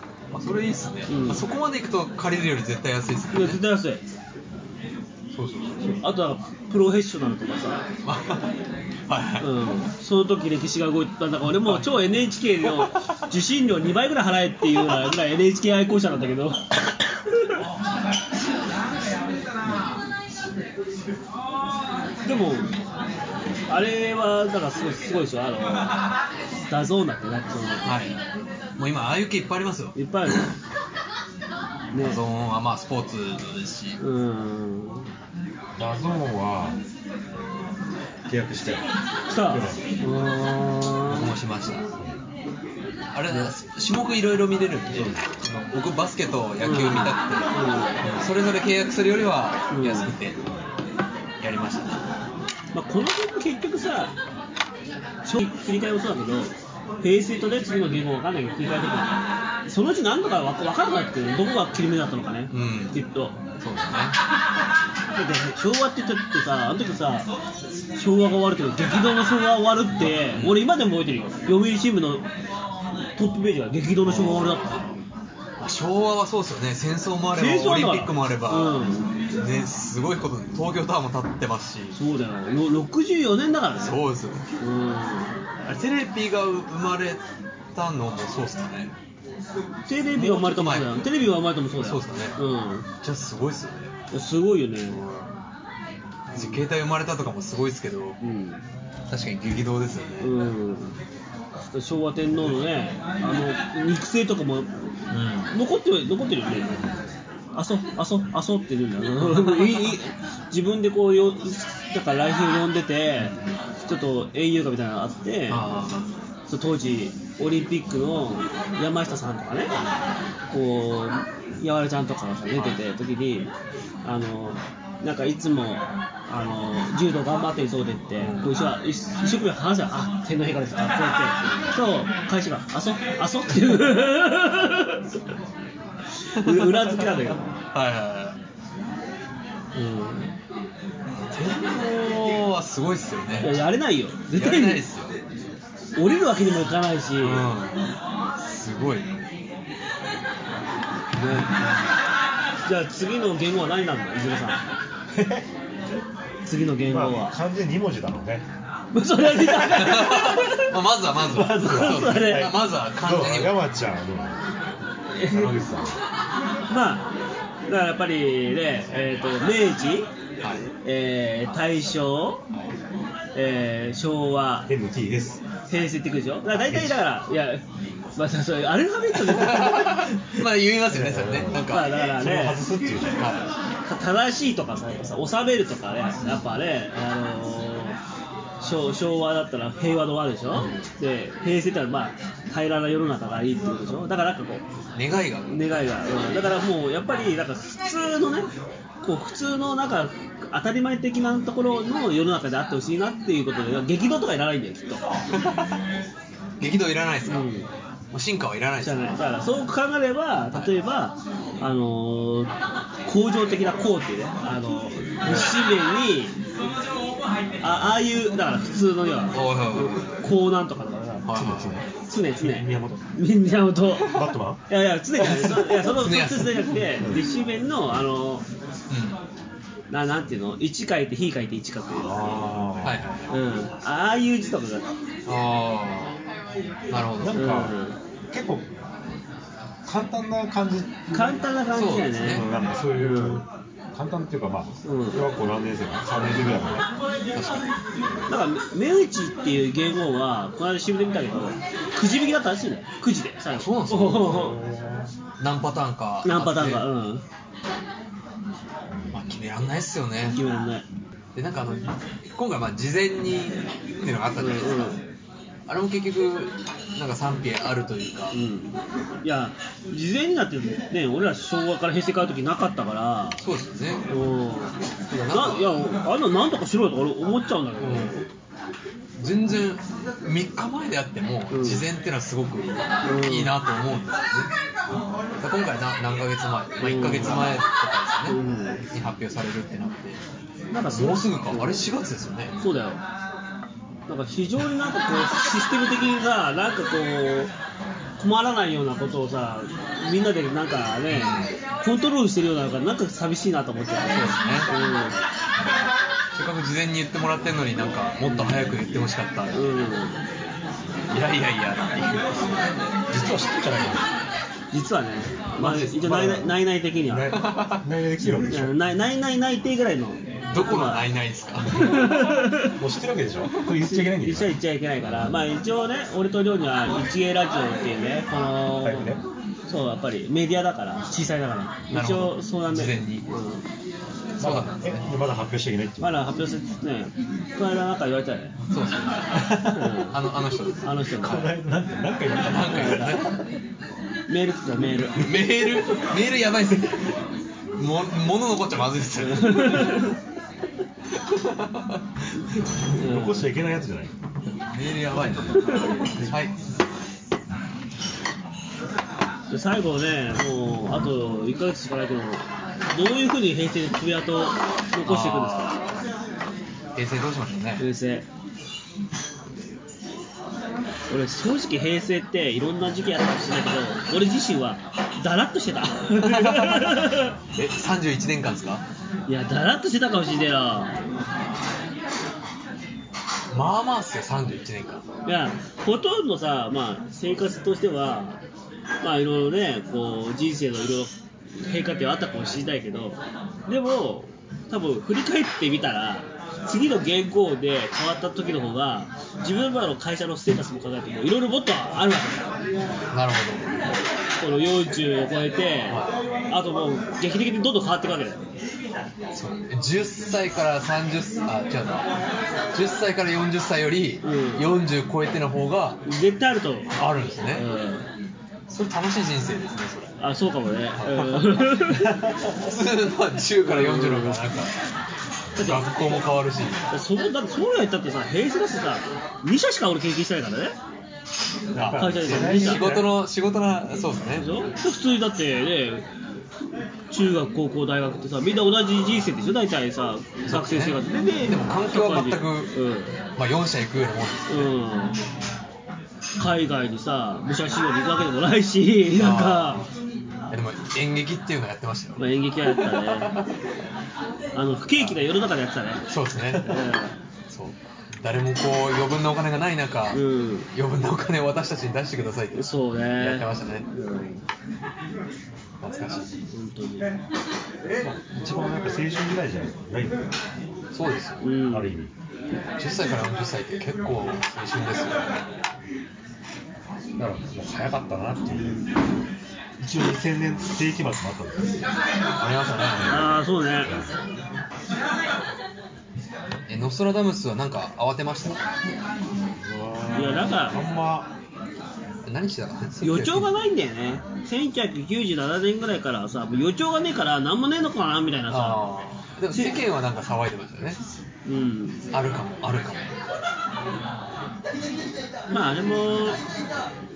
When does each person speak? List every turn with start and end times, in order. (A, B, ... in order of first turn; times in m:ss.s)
0:00.3-0:03.6 A
0:01.1-0:01.4 B
0:03.3-0:04.0 B
0:05.3-0:06.0 A
0:05.9-0:07.8 B
0:08.0-0:08.5 A
0:09.1-0:09.5 A
0:09.4-0:17.6 B
0:11.6-0:11.9 A
0:12.8-0:13.2 A
0:22.2-0:22.7 B
0:23.7-0:25.9 B
0:26.7-0:27.8 B
0:27.8-0:28.2 A
0:28.8-0:29.9 A
0:29.9-0:30.4 B
0:31.9-0:32.2 B
0:31.9-0:34.0 A
0:34.0-0:35.1 B
0:35.8-0:36.8 C
0:38.3-0:38.8 C
0:39.3-0:41.3 B
0:39.5-0:39.8 C
0:41.1-0:41.8 A
0:43.1-0:50.4 A
0:43.3-0:43.5 B
0:44.9-0:45.2 C
0:46.6-0:48.0 B
0:49.7-0:50.1 B
0:51.4-0:52.0 A
0:52.7-0:54.1 B
0:55.2-1:03.3 B
1:02.5-1:03.0 A
1:03.6-1:04.2 A
1:05.1-1:07.3 B
1:08.0-1:12.2 B
1:10.3-1:10.6 A
1:13.2-1:14.8 B
1:14.0-1:14.9 A
1:15.6-1:18.8 A
1:17.3-1:19.1 B
1:19.4-1:22.0 A
1:21.9-1:24.0 B
1:23.8-1:24.5 A
1:24.6-1:25.3 B
1:25.6-1:27.2 A
1:27.7-1:28.9 A
1:29.9-1:32.9 B
1:30.2-1:31.0 A
1:31.8-1:32.4 A
1:33.0-1:33.9 A
1:34.1-1:35.0 B
1:34.9-1:35.3 A
1:36.3-1:38.2 A
1:36.4-1:36.6 B
1:38.2-1:38.6 B
1:39.1-1:40.3 A
1:40.2-1:40.9 B
1:41.7-1:44.7 B
1:45.1-1:45.5 A
1:45.5-1:46.9 B
1:47.5-1:55.6 B
1:49.2-1:49.9 A
1:55.5-1:56.1 A
1:56.5-1:59.7 B
2:00.5-2:03.5 B
2:04.0-2:15.1 B
2:08.2-2:08.5 A
2:16.3-2:17.4 B
2:16.4-2:18.4 A
2:19.7-2:20.3 B
2:21.3-2:23.6 A
2:23.4-2:24.8 B
2:24.3-2:25.2 A
2:26.0-2:27.4 B
2:27.2-2:27.8 A
2:28.4-2:29.1 A
2:31.2-2:31.5 B
2:31.2-2:31.7 A
2:32.6-2:34.6 B
2:35.1-2:35.5 C
2:36.4-2:37.4 B
2:36.9-2:38.4 C
2:38.9-2:40.7 B
2:39.4-2:43.6 A
2:41.3-2:42.5 B
2:41.3-2:44.4 C
2:45.1-2:45.5 B
2:45.2-2:46.0 C
2:46.7-2:47.1 B
2:47.7-2:50.1 B
2:50.8-2:52.4 B
2:53.3-2:54.7 B
2:54.7-2:55.4 C
2:55.7-2:57.6 B
2:56.6-2:56.9 C
2:58.2-3:00.0 B
2:59.3-3:02.0 A
3:00.9-3:03.2 C
3:01.7-3:02.6 B
3:03.2-3:03.5 A
3:03.9-3:08.0 B
3:08.6-3:14.6 B
3:10.5-3:10.8 A
3:14.9-3:15.8 A
3:15.5-3:18.5 B
3:19.0-3:25.0 B
3:25.4-3:25.7 A
3:26.6-3:27.5 A
3:27.3-3:27.7 B
3:28.1-3:29.2 A
3:28.8-3:32.5 B
3:33.0-3:36.3 B
3:35.2-3:35.6 A
3:37.6-3:41.3 B
3:39.3-3:40.1 A
3:41.2-3:41.9 A
3:41.3-3:41.8 C
3:42.1-3:48.4 B
3:42.4-3:43.0 C
3:44.0-3:44.6 C
3:45.2-3:46.8 A
3:47.0-3:47.2 C
3:48.9-3:49.2 A
3:49.9-3:52.4 B
3:52.0-3:53.0 C
3:52.8-3:53.3 A
3:53.3-3:54.9 B
3:55.3-3:56.2 A
3:56.9-3:57.4 A
3:57.2-3:57.7 C
3:57.3-3:58.0 B
3:58.3-3:58.7 C
3:59.8-4:01.4 C
4:01.1-4:03.4 B
4:01.7-4:02.4 A
4:02.2-4:06.9 C
4:04.8-4:05.2 B
4:06.1-4:06.7 A
4:07.3-4:07.6 A
4:08.3-4:14.6 B
4:13.5-4:14.6 A
4:14.3-4:15.1 C
4:15.4-4:16.8 A
4:16.2-4:17.2 B
4:19.1-4:20.4 A
4:20.3-4:20.8 B
4:21.3-4:25.0 A
4:24.4-4:25.0 B
4:25.7-4:28.4 A
4:28.3-4:33.4 B
4:33.4-4:34.0 A
4:34.1-4:34.7 B
4:35.1-4:35.8 A
4:35.3-4:38.3 B
4:37.8-4:38.2 A
4:39.2-4:44.5 A
4:41.5-4:41.8 B
4:43.0-4:43.5 B
4:45.4-4:48.4 A
4:46.8-4:47.6 B
4:48.3-4:48.8 B
4:48.9-4:50.2 A
4:50.7-4:51.8 B
4:50.9-4:52.5 A
4:52.6-4:53.0 B
4:54.1-4:57.5 B
4:58.2-5:05.2 B
5:01.1-5:01.5 A
5:04.1-5:04.7 A
5:06.3-5:09.9 A
5:08.2-5:08.9 B
5:09.5-5:10.2 B
5:11.1-5:12.4 A
5:13.1-5:14.0 C
5:14.7-5:17.3 B
5:15.6-5:16.5 C
5:15.6-5:15.9 A
5:17.0-5:18.8 C
5:17.3-5:17.8 A
5:18.5-5:21.0 B
5:20.5-5:22.2 A
5:21.7-5:22.8 B
5:22.6-5:24.6 C
5:23.8-5:29.1 B
5:28.8-5:29.2 C
5:29.7-5:33.6 B
5:31.9-5:33.3 A
5:34.4-5:35.0 A
5:34.4-5:36.2 C
5:36.0-5:38.5 B
5:38.7-5:40.9 A
5:39.3-5:39.9 C
5:39.6-5:40.2 B
5:40.8-5:41.5 B
5:41.2-5:43.2 C
5:42.4-5:43.4 A
5:42.7-5:43.2 B
5:44.3-5:45.5 B
5:45.1-5:47.1 A
5:47.8-5:50.1 A
5:49.2-5:50.1 B
5:51.2-5:52.0 A
5:52.9-5:53.5 B
5:53.0-5:54.1 C
5:54.5-5:56.5 A
5:55.5-5:56.3 B
5:59.5-6:05.8 B
6:05.0-6:05.9 A
6:06.9-6:07.8 A
6:07.8-6:08.2 B
6:11.1-6:17.3 B
6:16.2-6:18.8 A
6:19.3-6:21.0 B
6:23.5-6:25.0 A
6:25.2-6:28.4 B
6:29.0-6:42.5 B
6:43.1-6:43.7 A
6:44.4-6:48.4 B
6:45.9-6:46.1 A
6:49.3-6:52.0 A
6:52.7-6:56.0 A
6:54.2-6:54.7 B
6:56.0-6:56.9 B
6:56.9-6:57.6 A
6:57.5-6:58.1 B
6:58.7-7:00.2 A
7:00.2-7:02.2 B
7:01.0-7:02.0 A
7:02.5-7:04.7 A
7:03.6-7:04.4 B
7:05.6-7:05.9 B
7:05.6-7:06.9 A
7:06.9-7:10.8 B
7:11.7-7:13.1 C
7:11.9-7:12.9 B
7:12.1-7:14.6 A
7:14.3-7:16.0 B
7:17.1-7:23.2 B
7:20.5-7:22.7 A
7:23.4-7:24.7 A
7:24.5-7:25.2 B
7:26.4-7:29.8 B
7:29.1-7:29.9 A
7:30.5-7:33.5 A
7:32.2-7:33.4 B
7:34.5-7:36.0 B
7:36.1-7:36.8 A
7:36.6-7:37.1 B
7:37.5-7:43.8 A
7:40.1-7:40.7 B
7:42.5-7:44.4 B
7:45.8-7:46.3 A
7:46.5-7:47.1 B
7:48.0-7:50.3 C
7:50.9-7:51.5 A
7:51.4-7:52.0 B
7:51.7-7:52.1 C
7:52.8-7:55.4 A
7:57.2-7:58.8 C
7:59.8-8:01.8 C
8:02.4-8:03.3 A
8:03.1-8:03.9 B
8:03.8-8:04.1 C
8:06.7-8:08.6 A
8:09.6-8:11.3 C
8:10.1-8:10.8 B
8:12.2-8:13.5 A
8:13.0-8:18.8 B
8:18.5-8:21.0 A
8:19.5-8:19.8 B
8:21.4-8:22.0 B
8:22.1-8:23.1 A
8:25.5-8:26.4 B